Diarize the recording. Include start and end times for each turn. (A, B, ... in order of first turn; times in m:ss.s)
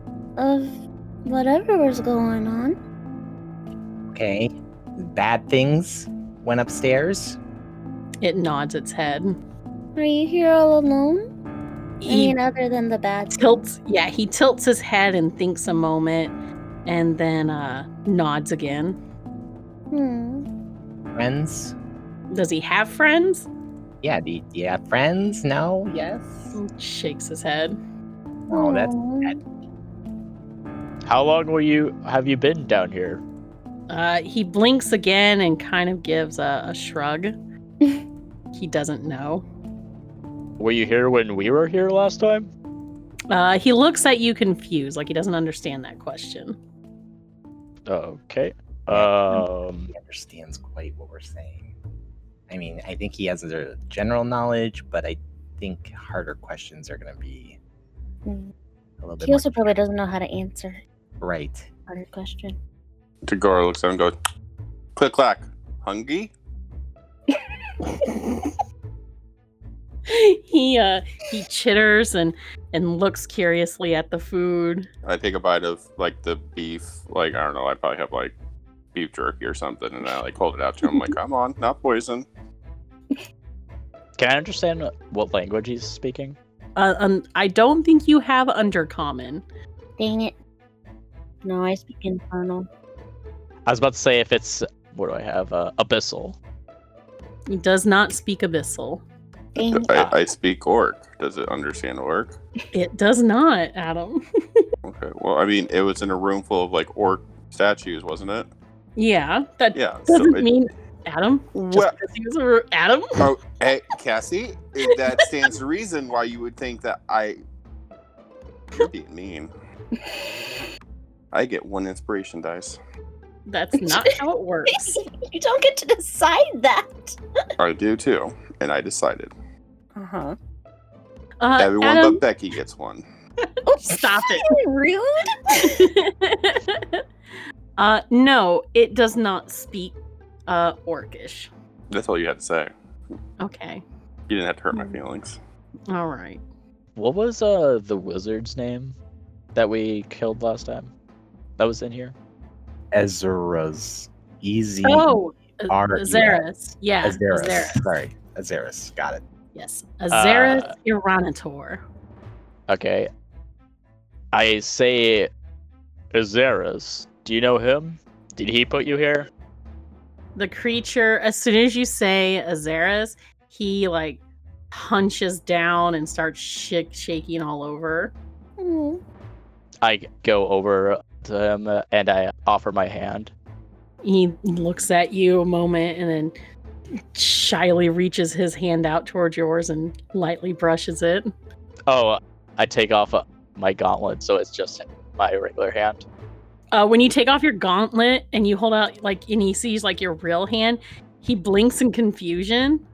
0:00.4-0:02.8 A
0:04.1-0:07.4 B
0:08.2-0:09.4 C
0:10.0-0:11.2 A
0:12.0-0:12.4 C
0:12.1-0:13.6 A
0:13.3-0:16.3 C
0:16.8-0:19.0 C
0:19.9-0:20.4 A
0:21.1-0:21.7 B
0:22.3-0:23.5 C
0:24.0-0:26.6 B
0:26.5-0:27.8 C
0:28.5-0:29.4 B
0:28.5-0:29.4 A
0:31.0-0:33.2 D
0:33.9-0:37.3 C
0:38.5-0:39.4 C
0:40.6-0:42.5 D
0:43.3-0:46.6 C
0:47.9-0:49.9 D
0:48.9-0:51.7 B
0:52.5-0:57.6 B
0:58.2-0:58.5 A
0:59.0-0:59.7 B
0:59.2-1:00.8 A
1:01.2-1:01.7 B
1:01.9-1:02.6 A
1:03.2-1:04.1 E
1:05.0-1:06.3 E
1:08.0-1:08.5 A
1:10.1-1:14.9 C
1:15.0-1:18.3 E
1:18.9-1:22.2 E
1:24.2-1:26.4 D
1:26.8-1:29.4 C
1:30.0-1:30.3 A
1:31.4-1:32.7 A
1:33.6-1:36.4 D
1:37.5-1:39.0 C
1:39.5-1:39.9 A
1:39.7-1:42.3 E
1:42.7-1:44.6 C
1:44.8-1:48.5 E
1:49.0-1:53.2 C
1:49.7-1:50.5 E
1:51.5-1:52.0 E
1:53.2-1:57.4 E
1:58.7-1:59.5 E
2:01.3-2:02.8 E
2:03.5-2:04.9 C
2:03.8-2:04.1 A
2:04.7-2:07.2 A
2:07.6-2:09.3 E
2:11.4-2:12.2 C
2:11.6-2:13.0 E
2:13.6-2:15.8 A
2:13.8-2:14.5 C
2:15.6-2:17.0 C
2:17.8-2:20.0 C
2:20.5-2:21.5 C
2:21.9-2:22.7 E
2:23.4-2:23.8 C
2:24.3-2:25.4 E
2:25.9-2:26.4 C
2:27.0-2:29.0 D
2:29.5-2:30.9 D
2:31.6-2:32.1 D
2:32.9-2:36.4 B
2:34.8-2:37.8 C
2:37.0-2:39.2 B
2:39.5-2:41.8 C
2:40.1-2:40.7 D
2:42.7-2:43.1 D
2:44.3-2:45.3 D
2:46.1-2:49.3 D
2:50.4-2:54.2 C
2:54.7-2:58.1 C
2:58.6-2:59.0 A
2:59.8-3:03.3 D
3:04.0-3:06.3 C
3:07.1-3:11.3 C
3:11.9-3:16.0 D
3:16.7-3:22.8 C